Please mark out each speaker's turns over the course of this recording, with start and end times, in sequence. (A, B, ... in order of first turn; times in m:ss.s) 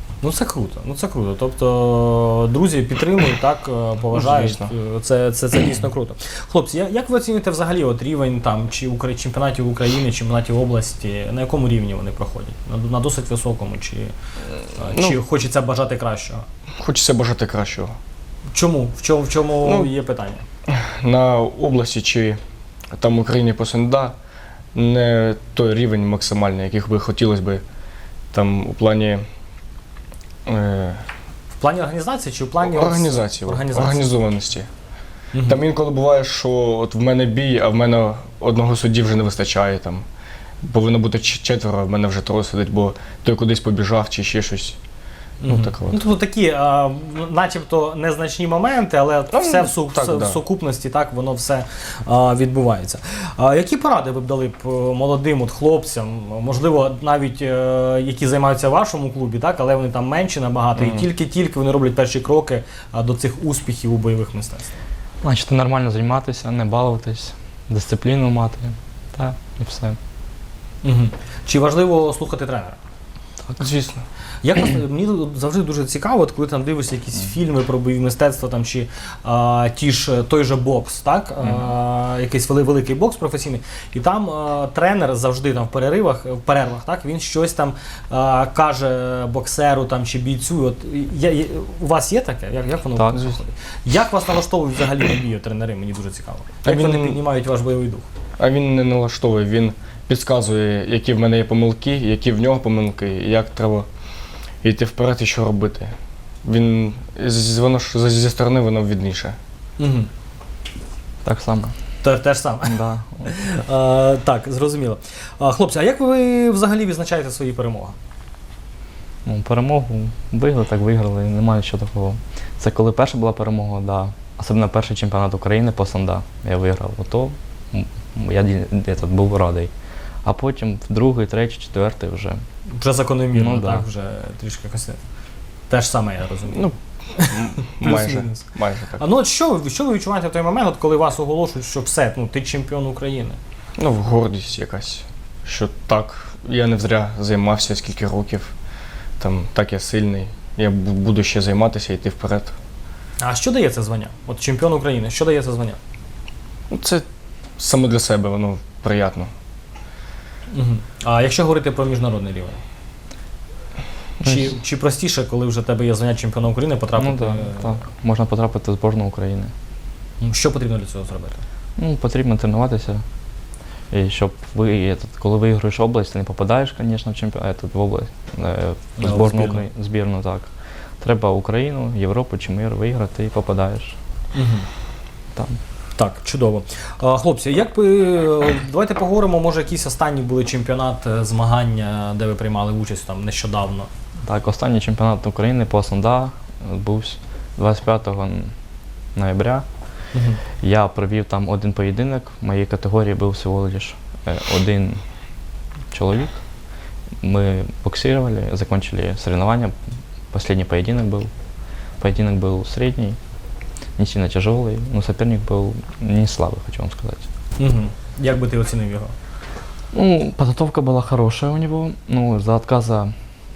0:00.2-0:14.1 A
0:04.1-0:04.7 B
0:14.8-0:16.5 A
0:14.9-0:15.2 B
0:16.8-0:18.0 B
0:18.5-0:20.4 A
0:19.6-0:19.9 B
0:20.7-0:22.4 B
0:22.9-0:24.2 B
0:24.8-0:27.6 B
0:28.3-0:29.2 B
0:30.5-0:31.0 B
0:31.6-0:34.1 A
0:32.6-0:34.7 B
0:35.3-0:35.6 A
0:35.4-0:40.0 B
0:40.6-0:44.8 B
0:45.4-1:04.7 A
0:45.5-0:46.0 B
0:49.3-0:50.4 B
1:00.8-1:01.1 B
1:05.2-1:10.0 C
1:10.8-1:12.8 A
1:13.6-1:14.0 B
1:14.4-1:38.1 A
1:33.0-1:33.3 C
1:36.6-1:37.2 B
1:38.4-1:43.9 B
1:44.6-1:49.4 B
1:49.8-1:50.1 A
1:51.2-1:51.7 C
1:52.0-1:58.0 A
1:52.7-1:53.2 C
1:59.2-2:09.7 C
2:10.2-2:12.4 C
2:12.8-2:15.0 A
2:13.3-2:13.9 C
2:15.7-2:18.5 A
2:16.5-2:19.0 B
2:19.0-2:23.4 A
2:23.8-2:28.5 B
2:29.2-2:32.5 B
2:33.2-2:35.8 A
2:36.7-2:37.0 B
2:37.6-2:39.3 B
2:40.5-2:42.6 A
2:44.2-2:47.8 A
2:44.2-2:44.5 C
2:47.0-2:49.5 C
2:50.2-2:51.4 A
2:51.8-2:53.0 C
2:53.9-3:04.0 C
2:59.0-2:59.6 A
3:04.3-3:04.7 A
3:06.0-3:13.9 A
3:14.2-3:18.5 C
3:19.2-3:19.6 C
3:20.1-3:20.4 A
3:20.6-3:25.0 C
3:25.9-3:26.4 C
3:27.2-3:29.7 C
3:30.3-3:31.3 C
3:32.0-3:33.2 C
3:34.0-3:37.2 C
3:37.6-3:39.1 A
3:39.9-3:43.1 C